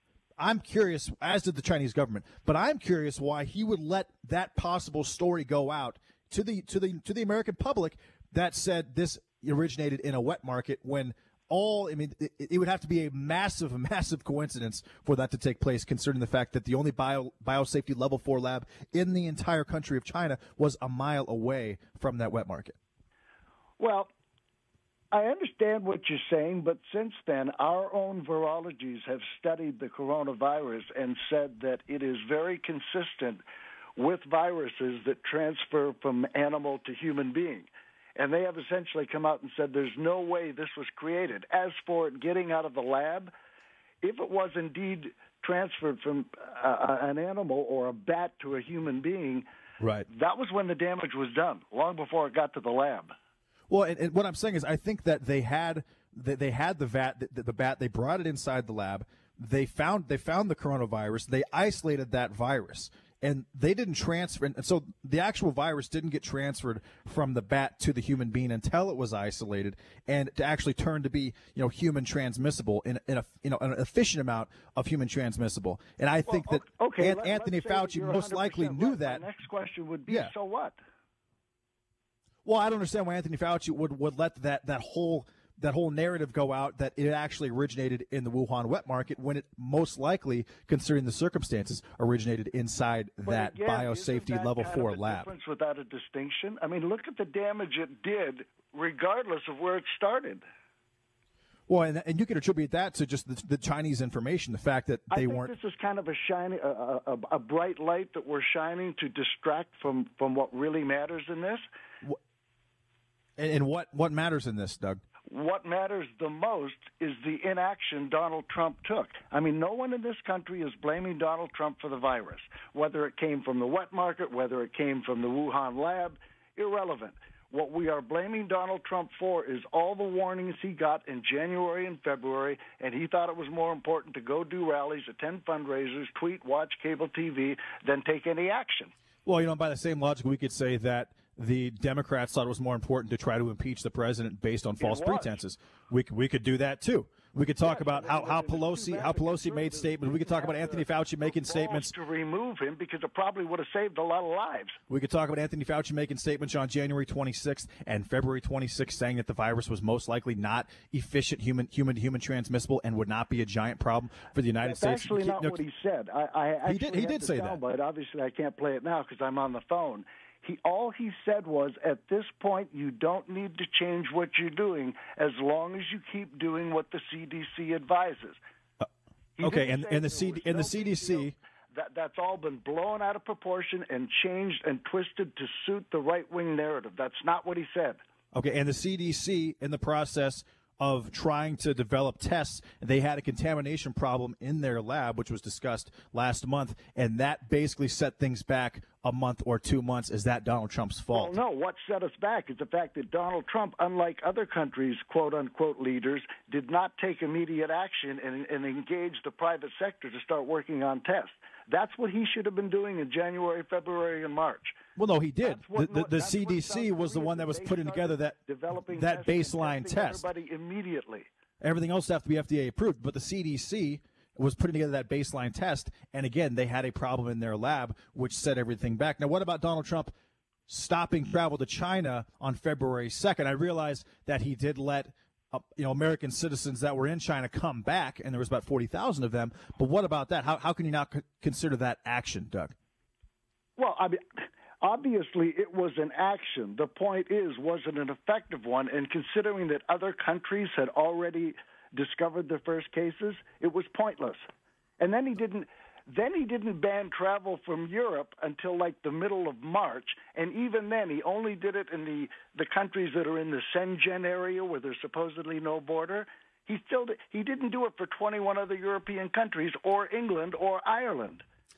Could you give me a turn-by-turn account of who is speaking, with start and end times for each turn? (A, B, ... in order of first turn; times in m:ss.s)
0:00.4-0:22.8 A
0:23.8-0:24.1 B
0:25.1-0:33.4 B
0:34.0-0:43.3 B
0:44.0-0:49.4 B
0:49.8-0:50.1 A
0:50.1-0:53.1 B
0:53.7-1:19.2 A
1:16.3-1:20.8 B
1:20.1-1:20.3 A
1:22.4-1:35.3 A
1:33.2-1:40.4 B
1:41.7-1:45.5 A
1:45.1-1:51.6 B
1:53.4-1:55.0 A
1:55.3-2:18.9 B
2:19.3-2:31.9 A
2:24.8-2:25.4 B
2:27.6-2:34.8 B
2:34.9-2:45.6 A
2:44.6-2:58.4 B
2:46.6-2:47.6 A
2:59.4-3:08.0 B
2:59.4-3:01.4 A
3:08.3-3:21.4 A
3:21.1-3:34.8 B
3:35.0-3:40.3 A
3:35.4-3:41.3 B
3:41.6-3:50.1 A
3:50.7-4:02.7 A
4:03.8-4:04.2 B
4:04.8-4:14.4 B
4:15.0-4:31.4 B